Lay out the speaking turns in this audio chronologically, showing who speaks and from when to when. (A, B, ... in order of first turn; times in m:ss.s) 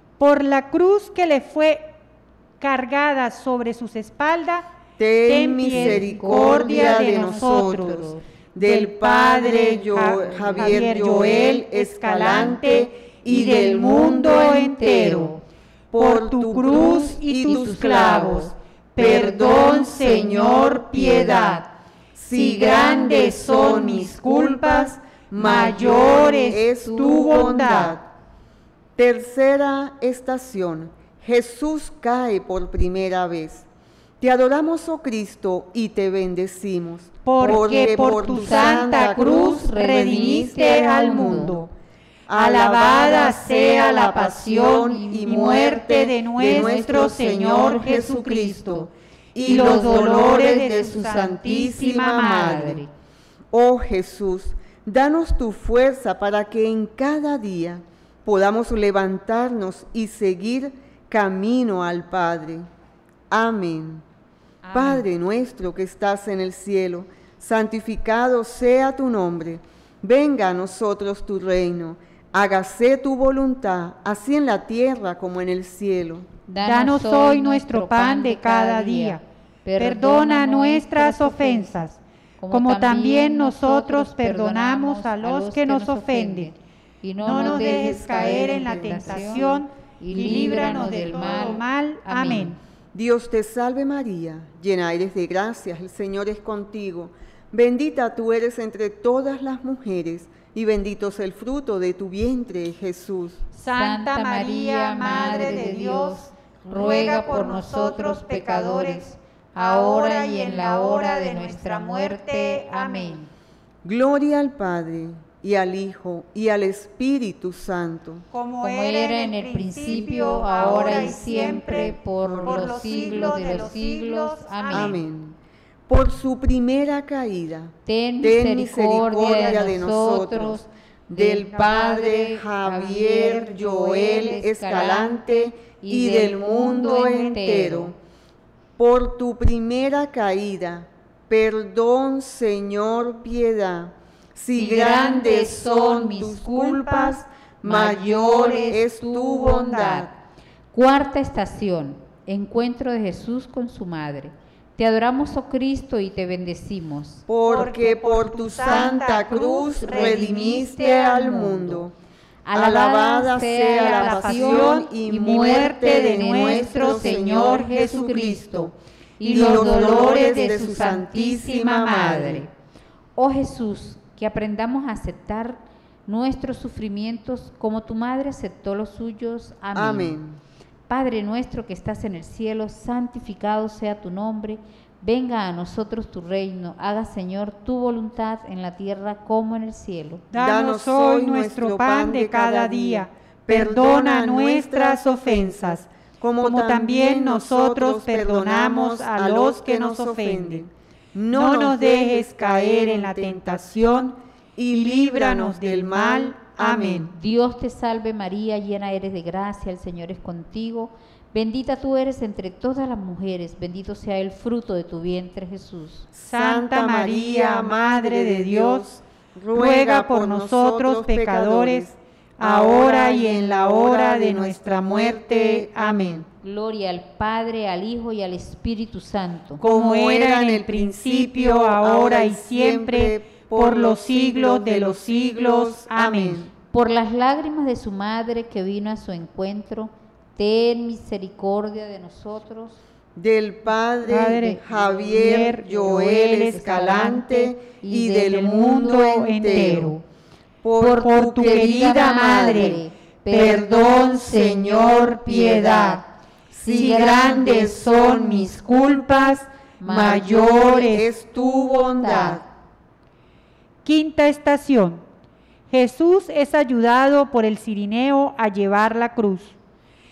0:00.2-0:01.9 A
0:02.6-0:04.7 A
0:05.0-0:15.3 B
0:05.2-0:15.4 A
0:05.7-0:08.2 C
0:10.2-0:11.1 C
0:14.8-0:15.4 C
0:15.9-0:28.0 B
0:16.0-0:21.7 A
0:17.5-0:18.5 C
0:22.3-0:28.0 A
0:29.0-0:33.7 B
0:34.2-0:41.7 B
0:37.2-0:41.7 A
0:37.8-0:41.6 C
0:42.3-0:52.8 B
0:42.3-0:48.9 A
0:49.4-0:52.7 A
0:52.3-0:52.9 C
0:53.5-1:02.7 B
1:03.3-1:04.0 B
1:04.7-1:05.0 A
1:04.7-1:16.3 B
1:16.5-1:21.9 C
1:16.6-1:19.2 A
1:19.8-1:22.0 A
1:22.4-1:32.6 C
1:22.5-1:26.5 A
1:27.2-1:32.6 A
1:27.2-1:29.6 B
1:30.1-1:31.5 B
1:32.9-1:43.4 B
1:43.6-1:53.2 A
1:43.7-1:53.3 C
1:53.8-1:58.2 B
1:58.3-2:05.0 A
1:58.6-2:05.0 C
1:59.9-2:03.7 B
2:04.7-2:05.4 B
2:05.9-2:18.0 B
2:07.9-2:17.9 C
2:18.8-2:30.1 B
2:24.6-2:26.7 C
2:24.8-2:25.4 A
2:26.5-2:28.8 A
2:27.7-2:30.1 C
2:30.7-2:37.2 C
2:37.3-2:41.9 B
2:37.5-2:41.6 A
2:39.9-2:40.5 C
2:41.2-2:41.8 C
2:42.4-2:50.9 C
2:42.5-2:48.7 B
2:43.7-2:48.2 A
2:49.2-2:52.4 A
2:49.2-2:52.5 B
2:53.2-3:00.2 C
2:59.7-3:00.4 B
3:00.9-3:10.2 C
3:10.3-3:15.8 A
3:10.3-3:27.1 B
3:16.4-3:20.6 A
3:21.3-3:24.0 A
3:24.7-3:27.1 A
3:27.1-3:36.1 C
3:36.1-3:46.2 B
3:36.3-3:38.9 A
3:39.5-3:46.2 A
3:46.4-3:49.6 C
3:49.6-3:56.4 A
3:49.6-3:56.5 B
3:56.7-4:02.8 C
4:03.2-4:10.0 B
4:04.0-4:07.1 A
4:06.5-4:08.5 C
4:08.1-4:10.0 A
4:10.6-4:18.7 B
4:10.8-4:13.7 C
4:10.9-4:12.8 A
4:13.3-4:16.0 A
4:16.6-4:21.1 A
4:16.7-4:17.2 C
4:19.8-4:22.4 B
4:22.0-4:22.4 C
4:23.8-4:25.0 A
4:25.7-4:29.5 A